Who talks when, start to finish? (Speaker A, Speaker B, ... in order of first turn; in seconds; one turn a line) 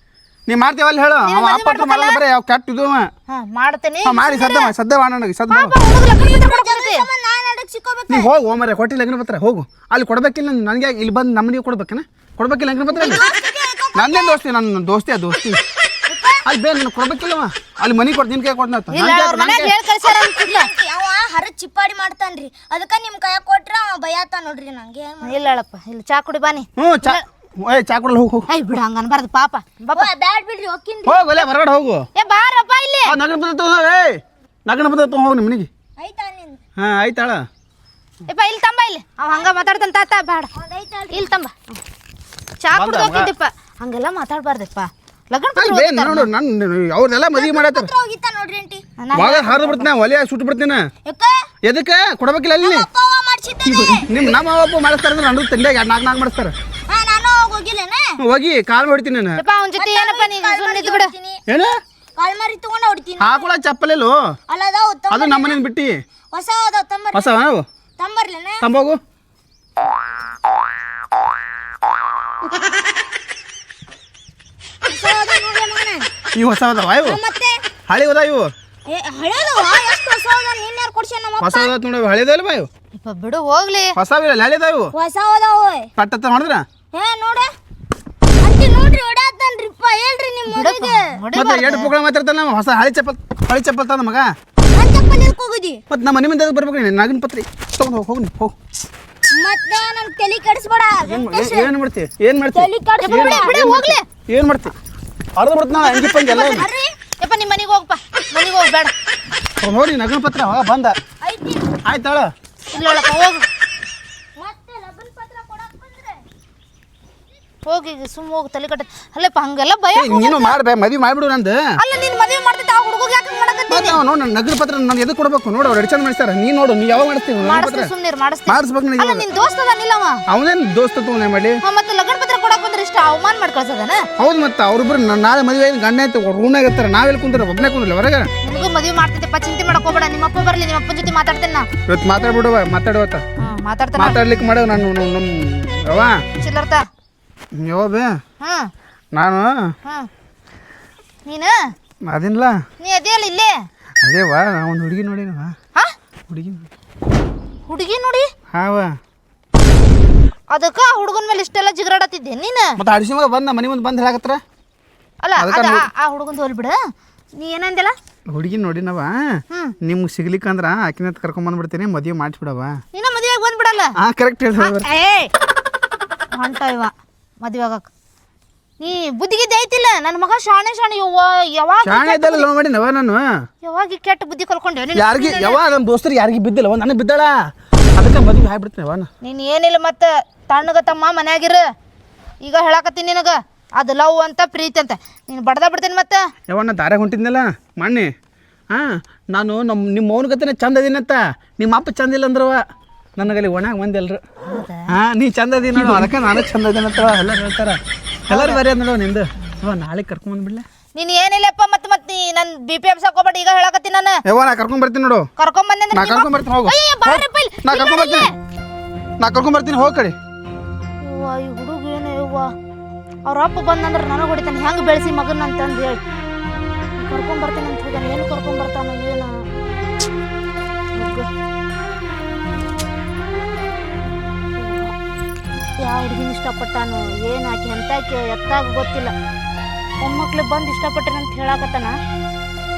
Speaker A: 0.5-3.1
Speaker B: 1.2-2.2
Speaker B: 3.3-4.2
Speaker A: 4.0-5.8
Speaker C: 4.2-4.7
Speaker B: 5.5-7.1
Speaker C: 6.2-8.3
Speaker A: 8.1-13.2
Speaker C: 12.9-14.4
Speaker A: 13.9-15.6
Speaker C: 16.1-16.4
Speaker A: 16.4-19.8
Speaker B: 18.9-20.7
Speaker C: 20.0-25.5
Speaker B: 25.2-27.2
Speaker A: 26.8-28.5
Speaker B: 28.5-30.1
Speaker C: 29.9-31.3
Speaker A: 31.1-32.1
Speaker B: 32.2-33.2
Speaker A: 33.1-35.7
Speaker C: 36.0-36.6
Speaker A: 36.8-37.4
Speaker B: 38.3-40.5
Speaker C: 39.3-39.9
Speaker C: 40.6-41.4
Speaker B: 41.1-41.8
Speaker B: 42.6-46.3
Speaker A: 42.7-43.3
Speaker A: 45.6-47.9
Speaker C: 47.4-48.8
Speaker B: 49.0-49.9
Speaker A: 49.1-50.8
Speaker C: 51.1-51.5
Speaker A: 51.6-52.9
Speaker C: 52.6-54.3
Speaker A: 54.1-56.5
Speaker C: 56.9-58.1
Speaker A: 58.2-59.4
Speaker B: 59.4-61.1
Speaker C: 59.8-61.4
Speaker A: 61.5-61.7
Speaker C: 62.2-63.5
Speaker A: 63.2-64.2
Speaker C: 64.5-65.6
Speaker A: 65.1-66.0
Speaker C: 66.3-67.3
Speaker A: 67.1-67.7
Speaker C: 68.0-68.6
Speaker A: 68.6-69.0
Speaker C: 74.9-76.1
Speaker A: 76.3-77.2
Speaker C: 77.0-77.6
Speaker A: 77.9-78.5
Speaker C: 78.9-81.7
Speaker A: 81.4-82.7
Speaker B: 82.9-84.0
Speaker A: 84.0-84.9
Speaker C: 84.9-85.9
Speaker A: 86.0-86.6
Speaker C: 86.9-87.5
Speaker C: 88.4-91.1
Speaker B: 90.5-91.9
Speaker A: 91.3-94.3
Speaker C: 94.7-95.8
Speaker A: 95.9-98.5
Speaker C: 99.3-101.7
Speaker A: 101.1-104.7
Speaker C: 102.5-103.6
Speaker B: 103.0-104.0
Speaker A: 105.4-106.7
Speaker C: 105.8-106.9
Speaker B: 107.2-108.9
Speaker A: 109.6-111.0
Speaker C: 111.2-111.8
Speaker A: 111.9-112.3
Speaker B: 112.7-113.4
Speaker C: 114.4-116.2
Speaker B: 117.7-120.6
Speaker A: 120.0-121.7
Speaker B: 121.8-124.0
Speaker A: 123.7-127.9
Speaker B: 127.4-130.2
Speaker A: 128.5-129.2
Speaker A: 130.3-131.6
Speaker B: 131.6-134.0
Speaker A: 134.2-138.3
Speaker B: 138.4-141.7
Speaker A: 141.9-143.2
Speaker B: 143.4-144.2
Speaker A: 144.0-146.2
Speaker B: 146.4-146.8
Speaker A: 147.6-148.2
Speaker B: 148.4-148.7
Speaker A: 149.1-149.7
Speaker B: 151.3-151.6
Speaker A: 152.1-152.6
Speaker B: 152.8-153.6
Speaker A: 154.0-155.6
Speaker A: 156.3-156.7
Speaker B: 157.7-158.3
Speaker A: 158.5-159.0
Speaker B: 160.5-162.8
Speaker A: 162.8-164.4
Speaker B: 165.2-166.8
Speaker A: 165.4-165.9
Speaker B: 167.4-167.9
Speaker A: 168.3-172.8
Speaker B: 172.9-173.9
Speaker A: 174.0-174.9
Speaker B: 174.6-175.3
Speaker B: 176.3-177.9
Speaker B: 178.8-182.5
Speaker A: 181.8-183.3
Speaker B: 183.6-185.6
Speaker A: 184.9-189.1
Speaker B: 189.2-191.6
Speaker B: 192.4-196.3
Speaker A: 196.5-198.1
Speaker A: 198.7-202.6
Speaker A: 203.2-204.2
Speaker B: 204.4-204.8
Speaker A: 204.9-210.7
Speaker B: 208.3-208.6
Speaker B: 210.9-214.2
Speaker A: 214.3-215.3
Speaker B: 215.4-218.3
Speaker A: 215.9-218.3
Speaker A: 219.2-220.2
Speaker B: 221.0-222.5
Speaker B: 223.3-226.0
Speaker B: 227.0-229.3
Speaker B: 231.0-231.3
Speaker B: 234.6-234.9
Speaker B: 235.8-239.1
Speaker B: 240.0-242.0